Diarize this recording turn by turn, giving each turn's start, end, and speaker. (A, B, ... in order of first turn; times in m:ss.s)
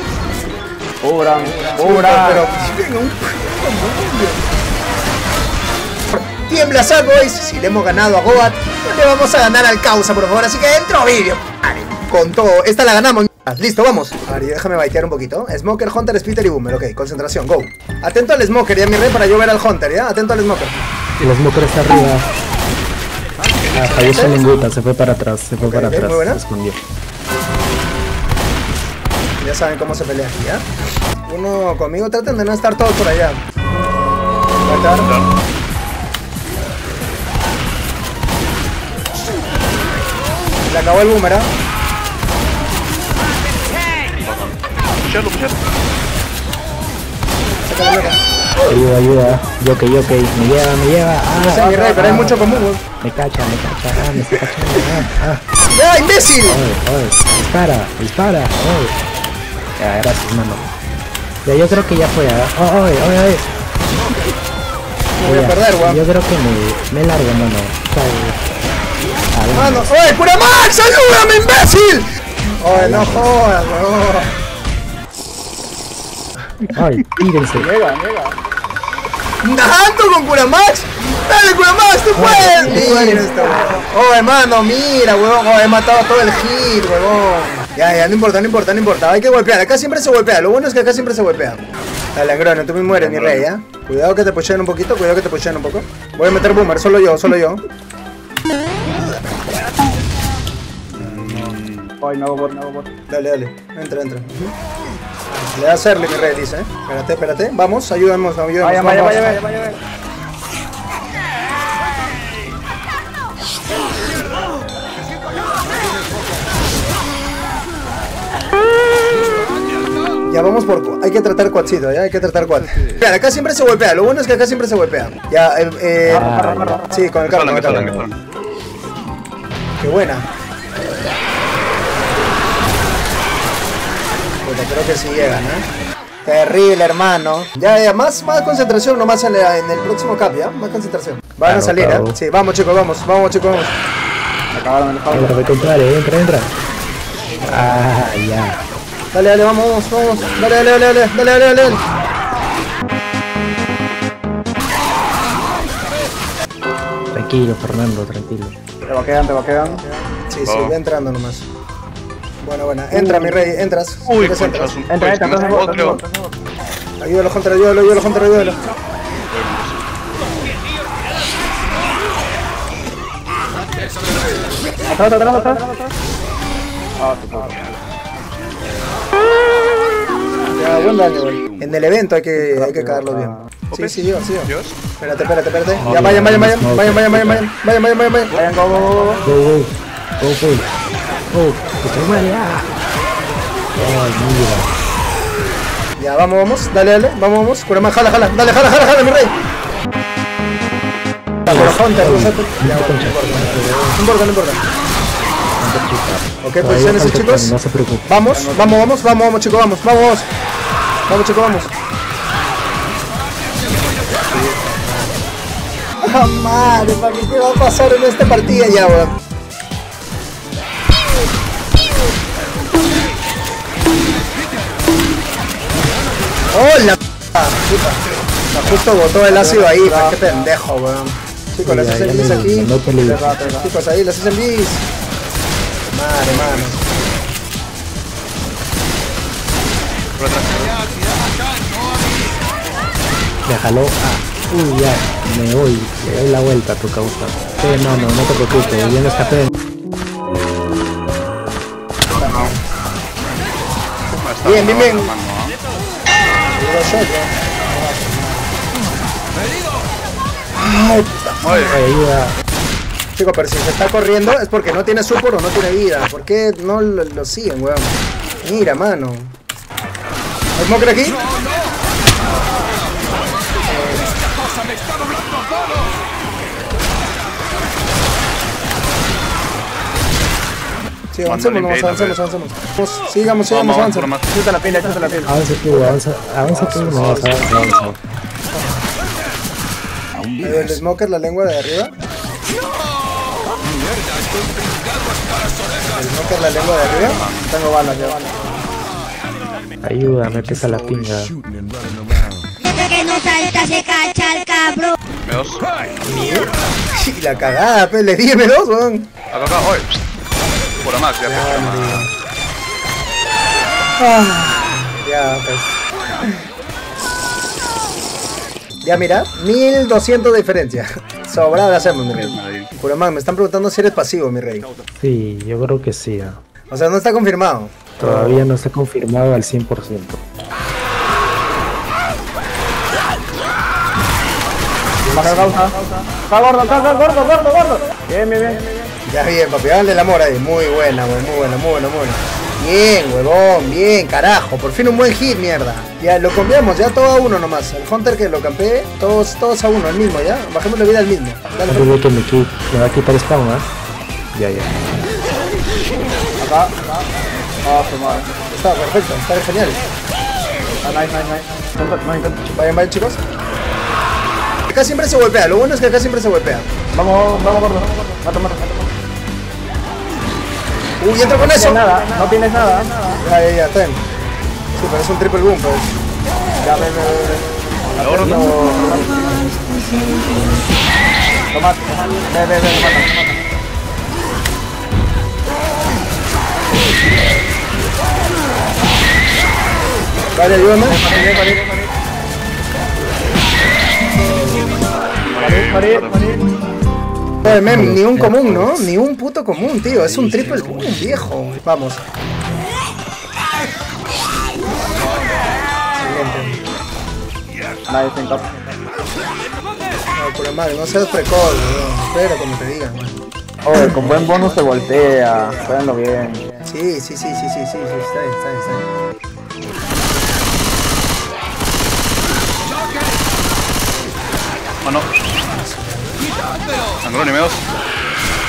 0:01.0-0:02.4 A
0:01.7-0:04.4 B
0:06.1-0:20.8 B
0:21.2-0:22.3 C
0:23.7-0:26.8 C
0:24.1-0:24.4 B
0:25.6-0:26.4 B
0:29.4-0:30.6 B
0:31.3-0:33.4 B
0:34.6-0:35.1 B
0:35.0-0:35.3 D
0:40.7-0:41.5 B
0:44.2-0:45.6 D
0:47.6-0:48.2 B
0:48.7-0:52.4 C
0:51.5-0:52.8 B
0:51.5-0:52.7 A
0:53.0-0:55.4 C
0:55.7-0:56.6 B
0:56.4-0:59.0 C
0:59.8-1:00.7 C
1:01.4-1:03.5 C
1:05.2-1:06.0 B
1:05.2-1:08.4 C
1:09.3-1:09.9 C
1:09.5-1:12.0 B
1:12.6-1:14.4 B
1:12.7-1:13.3 C
1:16.8-1:17.7 C
1:17.6-1:18.4 A
1:19.4-1:31.6 B
1:22.2-1:23.3 C
1:32.2-1:37.6 B
1:32.8-1:33.5 D
1:40.9-1:41.9 D
1:41.0-1:41.6 B
1:42.0-1:42.9 A
1:43.1-1:44.5 B
1:45.3-1:49.4 B
1:48.6-1:49.8 A
2:00.3-2:08.0 B
2:06.0-2:07.0 A
2:06.1-2:06.8 C
2:07.3-2:08.2 D
2:07.5-2:08.1 C
2:09.8-2:10.3 B
2:14.4-2:15.7 B
2:16.2-2:23.7 B
2:21.4-2:22.2 C
2:24.5-2:25.4 A
2:25.1-2:26.5 C
2:27.4-2:27.8 B
2:27.5-2:28.6 C
2:29.1-2:31.8 B
2:37.1-2:38.5 C
2:38.9-2:39.8 A
2:39.6-2:41.5 B
2:40.4-2:40.8 D
2:42.4-2:44.8 B
2:42.9-2:43.5 A
2:44.0-2:46.0 D
2:44.9-2:46.3 A
2:47.0-2:48.6 B
2:49.3-2:49.8 D
2:54.9-2:55.6 A
2:57.0-2:57.7 A
3:00.5-3:08.3 B
3:02.4-3:03.5 A
3:03.7-3:04.8 D
3:05.8-3:07.5 C
3:08.4-3:09.2 A
3:09.2-3:10.7 C
3:11.3-3:12.7 C
3:13.8-3:14.7 C
3:16.0-3:19.3 B
3:21.5-3:24.0 C
3:21.5-3:24.6 B
3:25.6-3:28.1 C
3:26.4-3:27.6 B
3:28.1-3:30.3 B
3:28.3-3:28.8 A
3:31.1-3:31.7 B
3:36.0-3:39.1 B
3:46.5-3:52.7 B
3:49.3-3:50.2 A
3:51.6-3:53.3 C
3:53.0-3:53.7 A
3:53.2-3:54.8 B
3:55.9-3:56.8 B
3:56.3-3:56.8 D
4:00.2-4:00.8 D
4:03.5-4:09.5 C
4:12.2-4:12.5 D
4:12.2-4:12.6 B
4:14.1-4:15.6 D
4:14.4-4:15.1 B
4:16.6-4:18.5 B
4:20.6-4:21.5 B
4:21.4-4:21.8 D
4:21.7-4:22.4 C
4:23.2-4:29.4 B
4:30.6-4:31.2 B
4:33.7-4:34.1 B
4:41.1-4:44.1 B
4:41.2-4:42.2 D
4:43.5-4:44.3 D
4:44.3-4:45.3 A
4:45.3-4:48.0 C
4:46.5-4:47.5 B
4:48.6-4:48.8 B
4:50.4-4:51.9 B
4:55.9-4:57.2 B
4:56.9-4:57.5 D
4:57.5-4:58.3 A
4:59.8-5:01.4 C
5:02.7-5:04.9 E
5:05.2-5:05.6 D
5:06.0-5:09.1 B
5:09.3-5:09.9 D
5:10.8-5:12.1 D
5:11.2-5:12.1 B
5:14.0-5:15.8 B
5:18.8-5:24.7 B
5:22.1-5:22.7 D
5:25.0-5:26.4 C
5:26.7-5:27.8 B
5:28.0-5:30.2 C
5:28.0-5:28.5 A
5:35.1-5:35.6 C
5:35.1-5:38.8 A
5:39.1-5:51.9 B
5:51.7-5:53.7 C
5:54.3-5:54.8 C
5:56.4-5:56.8 A
5:57.6-5:58.3 A
5:58.5-5:59.8 B
6:00.8-6:02.4 A
6:02.5-6:03.2 B
6:04.7-6:06.7 B
6:06.9-6:08.9 A
6:11.0-6:11.8 B
6:11.4-6:13.2 A
6:13.2-6:14.0 B
6:14.8-6:15.9 B
6:16.6-6:17.5 A
6:18.0-6:18.5 D
6:18.0-6:19.5 A
6:18.0-6:18.4 B
6:21.5-6:23.3 A
6:30.4-6:31.0 B
6:30.8-6:31.7 A
6:35.3-6:36.2 D
6:35.4-6:36.5 A
6:37.4-6:42.0 B
6:37.5-6:38.9 C
6:46.0-6:46.6 B
6:47.9-6:48.6 A
6:50.2-6:53.2 B
6:53.6-6:56.4 A
6:53.8-6:58.8 B
7:05.5-7:06.2 B
7:07.0-7:07.6 D